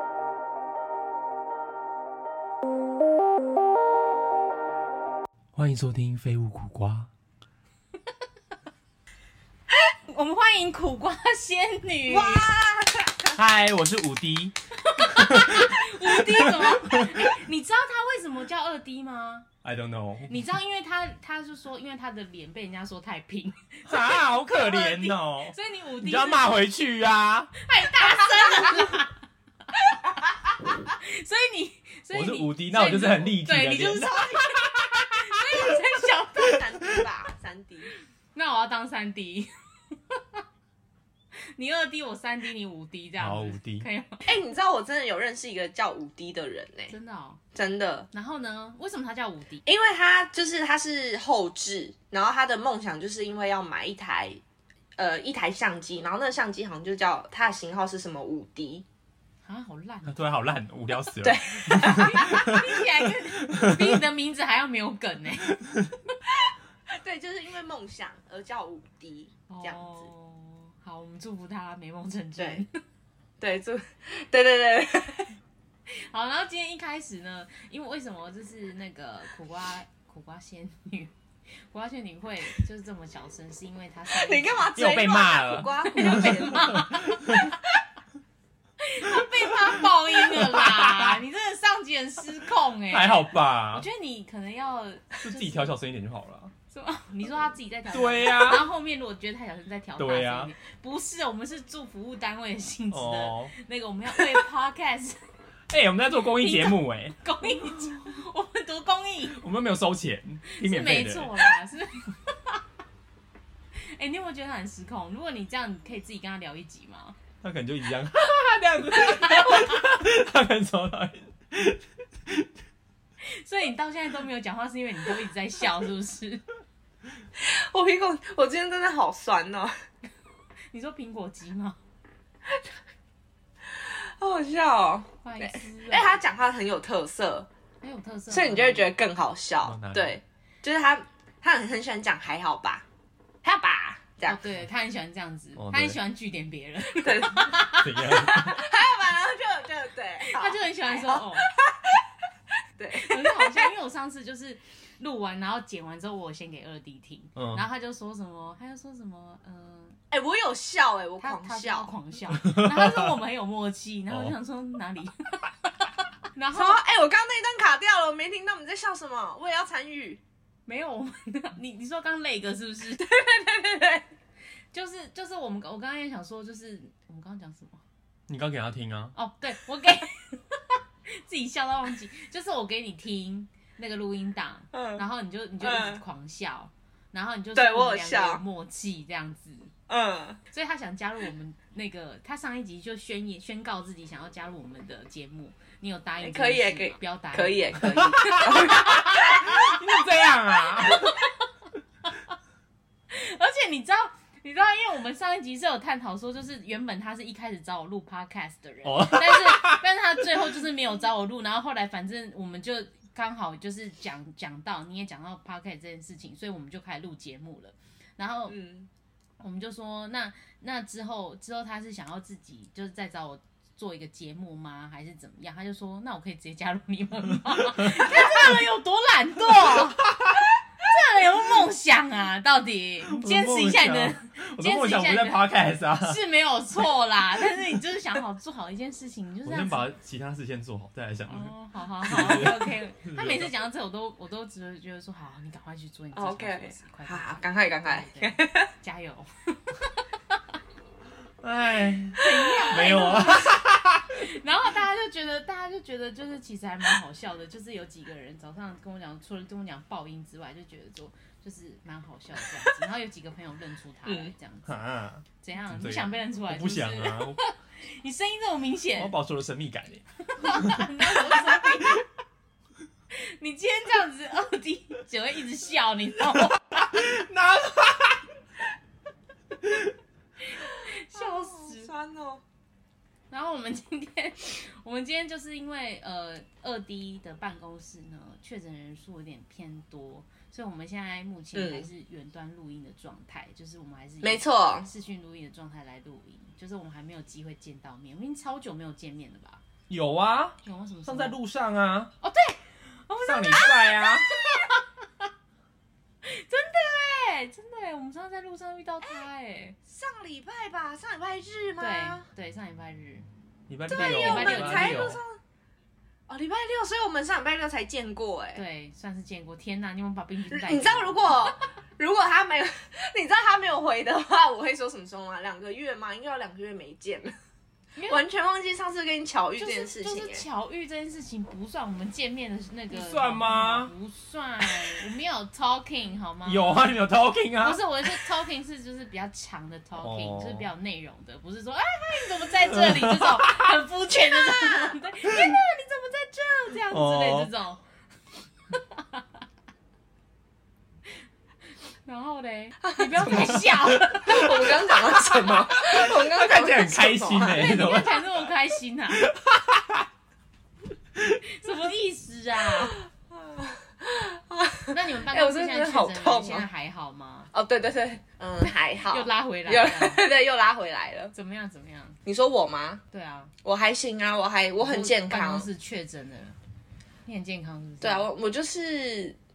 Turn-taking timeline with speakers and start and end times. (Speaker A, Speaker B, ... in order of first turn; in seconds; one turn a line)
Speaker A: 5.5-7.1
Speaker B: 10.1-12.5
Speaker C: 12.1-13.4
Speaker A: 13.3-17.3
Speaker B: 14.8-19.5
Speaker A: 19.6-20.4
Speaker B: 20.2-26.6
Speaker A: 23.9-27.5
Speaker B: 27.6-29.2
Speaker C: 27.9-29.0
Speaker B: 30.9-36.9
Speaker A: 32.1-35.1
Speaker C: 33.9-34.6
Speaker C: 36.4-37.9
Speaker B: 38.4-40.4
Speaker B: 41.5-44.3
Speaker A: 43.2-43.9
Speaker C: 44.3-46.9
Speaker B: 46.9-47.4
Speaker C: 47.5-48.1
Speaker B: 48.1-49.6
Speaker C: 49.7-54.4
Speaker C: 55.0-58.8
Speaker B: 59.4-60.3
Speaker A: 60.1-62.8
Speaker C: 61.2-62.4
Speaker B: 61.8-66.1
Speaker A: 63.4-64.0
Speaker C: 66.3-70.1
Speaker B: 69.5-72.7
Speaker C: 72.4-72.6
Speaker C: 73.4-75.3
Speaker B: 76.1-84.7
Speaker C: 84.1-87.1
Speaker A: 84.8-87.5
Speaker B: 85.9-87.5
Speaker B: 88.8-95.8
Speaker A: 90.2-91.2
Speaker A: 92.9-93.9
Speaker A: 95.2-96.5
Speaker B: 96.7-105.2
Speaker A: 97.9-98.7
Speaker A: 100.0-100.5
Speaker A: 102.9-103.5
Speaker A: 105.7-107.2
Speaker B: 106.1-109.4
Speaker A: 109.3-111.5
Speaker B: 110.5-112.6
Speaker B: 113.8-117.2
Speaker A: 117.4-122.5
Speaker B: 119.1-119.8
Speaker B: 123.2-126.5
Speaker C: 127.4-129.7
Speaker B: 130.7-131.8
Speaker C: 133.8-137.5
Speaker B: 135.2-136.2
Speaker B: 137.8-138.9
Speaker C: 138.3-142.8
Speaker A: 139.6-140.2
Speaker C: 143.4-144.4
Speaker B: 144.2-148.6
Speaker A: 145.6-146.0
Speaker C: 146.9-147.5
Speaker A: 147.8-148.6
Speaker C: 148.3-152.0
Speaker B: 150.3-151.5
Speaker C: 152.8-153.7
Speaker B: 153.0-160.0
Speaker A: 157.4-157.6
Speaker C: 160.1-161.9
Speaker B: 161.2-166.8
Speaker A: 162.4-163.1
Speaker C: 166.5-170.2
Speaker B: 170.7-173.1
Speaker C: 173.0-174.0
Speaker B: 174.7-177.8
Speaker A: 178.3-179.2
Speaker B: 179.2-189.7
Speaker C: 184.7-185.0
Speaker C: 185.6-186.0
Speaker C: 187.6-188.4
Speaker C: 189.9-190.4
Speaker B: 190.5-199.8
Speaker C: 196.2-199.7
Speaker A: 197.8-201.1
Speaker B: 200.8-201.3
Speaker B: 203.1-218.6
Speaker A: 208.8-209.8
Speaker C: 218.5-218.9
Speaker B: 219.4-230.1
Speaker A: 227.8-228.1
Speaker A: 229.7-230.4
Speaker B: 230.8-239.9
Speaker A: 233.0-236.2
Speaker A: 239.4-243.5
Speaker B: 241.3-250.4
Speaker C: 246.2-248.7
Speaker A: 251.4-254.1
Speaker B: 252.2-264.8
Speaker C: 264.1-264.3
Speaker A: 264.7-267.4
Speaker B: 265.4-269.2
Speaker A: 269.0-271.0
Speaker B: 270.3-272.0
Speaker C: 271.2-271.8
Speaker B: 273.1-277.1
Speaker A: 276.7-278.3
Speaker A: 279.6-279.9
Speaker B: 280.4-281.9
Speaker C: 280.8-282.4
Speaker B: 283.3-299.6
Speaker C: 291.5-291.9
Speaker C: 294.2-294.9
Speaker A: 299.9-302.1
Speaker B: 300.6-301.4
Speaker B: 302.2-304.9
Speaker A: 303.2-304.3
Speaker B: 306.2-309.8
Speaker C: 309.9-312.3
Speaker B: 311.8-313.3
Speaker A: 313.7-315.2
Speaker B: 313.9-315.2
Speaker C: 313.9-315.4
Speaker C: 316.3-318.6
Speaker B: 318.6-321.5
Speaker C: 320.5-327.3
Speaker B: 328.0-328.2
Speaker C: 328.1-330.4
Speaker B: 329.6-336.9
Speaker A: 332.9-333.9
Speaker A: 334.7-335.0
Speaker A: 336.4-338.3
Speaker B: 337.6-347.8
Speaker A: 340.0-340.7
Speaker A: 342.4-343.7
Speaker C: 344.6-344.9
Speaker A: 345.3-345.6
Speaker A: 346.9-347.5
Speaker B: 348.7-349.2
Speaker B: 352.1-355.0
Speaker C: 352.8-358.0
Speaker A: 355.1-358.5
Speaker B: 357.6-359.3
Speaker A: 359.2-360.1
Speaker B: 361.4-363.0
Speaker C: 363.0-366.7
Speaker B: 364.9-367.5
Speaker C: 367.5-371.3
Speaker B: 368.6-370.2
Speaker B: 371.3-372.2
Speaker C: 372.2-373.0
Speaker B: 373.1-373.5
Speaker C: 373.6-375.7
Speaker B: 374.8-376.6
Speaker B: 377.3-378.3
Speaker C: 378.0-379.4